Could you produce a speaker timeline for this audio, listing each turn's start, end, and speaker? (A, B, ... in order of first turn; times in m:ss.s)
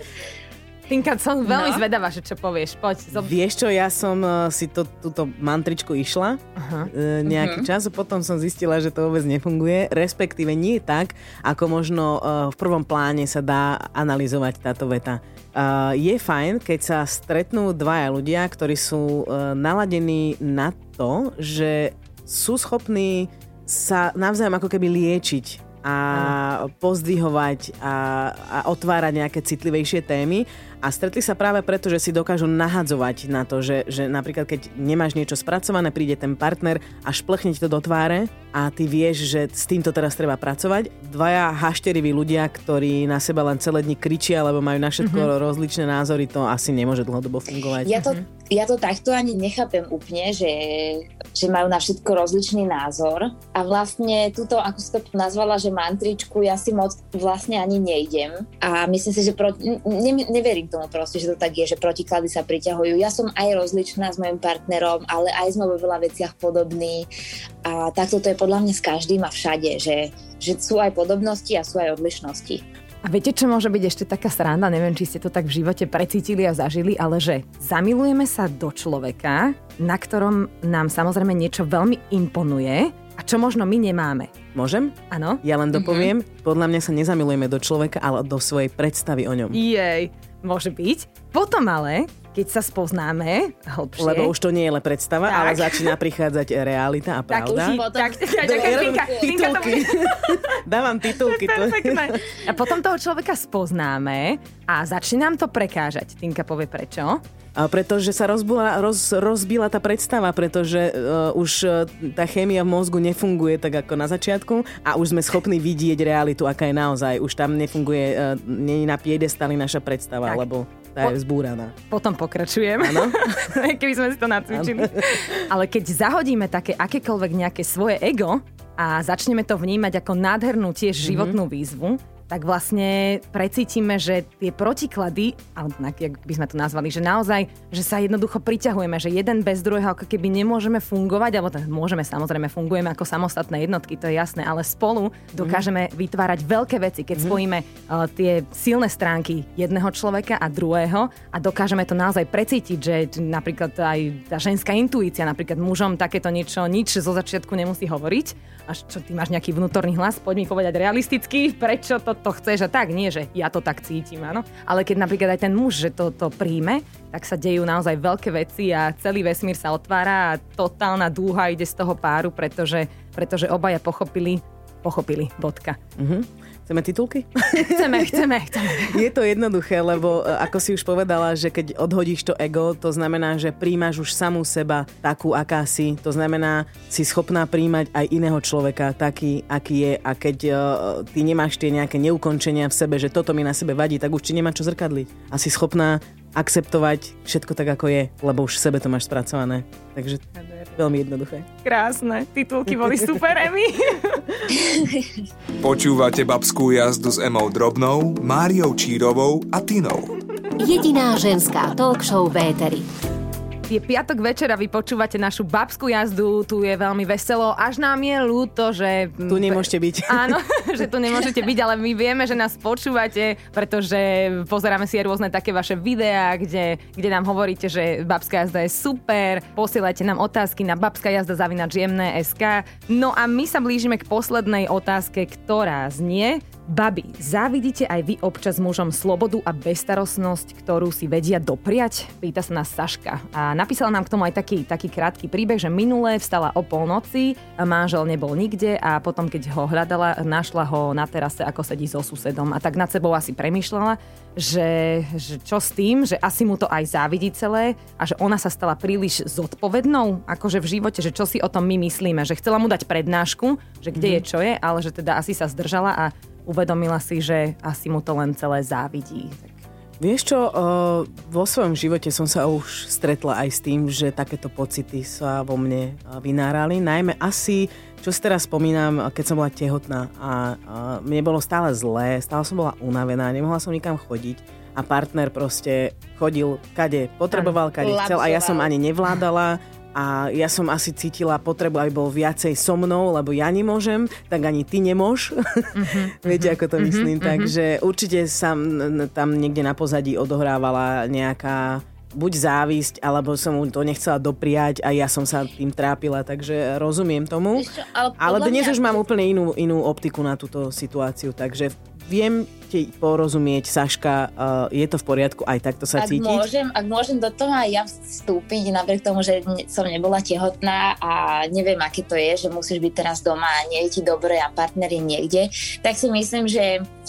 0:00.9-0:03.3 A
0:01.5-0:01.8 B
0:03.1-0:48.1 C
0:06.6-0:06.9 A
0:07.2-0:07.7 B
0:45.0-0:45.3 A
0:47.8-1:07.1 B
1:07.6-1:12.6 B
1:13.0-1:24.3 A
1:24.5-1:29.6 C
1:25.1-1:25.4 A
1:25.8-1:26.1 B
1:29.5-1:34.3 A
1:34.0-1:37.8 C
1:35.2-1:35.9 A
1:37.3-1:47.2 A
1:37.4-1:39.8 B
1:38.4-1:42.4 C
1:47.6-2:01.8 C
2:01.9-2:55.8 A
2:02.8-2:03.4 C
2:04.5-2:05.4 C
2:11.0-2:11.4 C
2:25.4-2:25.6 C
2:56.0-3:21.5 C
2:57.5-2:59.0 A
3:20.4-3:20.7 A
3:21.6-3:24.2 A
3:24.6-3:25.1 B
3:25.6-3:30.1 D
3:30.6-3:32.9 E
3:33.7-4:29.6 A
3:39.3-3:40.4 C
4:24.0-4:24.2 C
4:30.0-5:07.7 C
4:47.4-4:48.7 B
4:55.7-4:57.5 A
5:07.6-5:09.0 B
5:08.2-5:16.4 C
5:16.0-5:26.8 B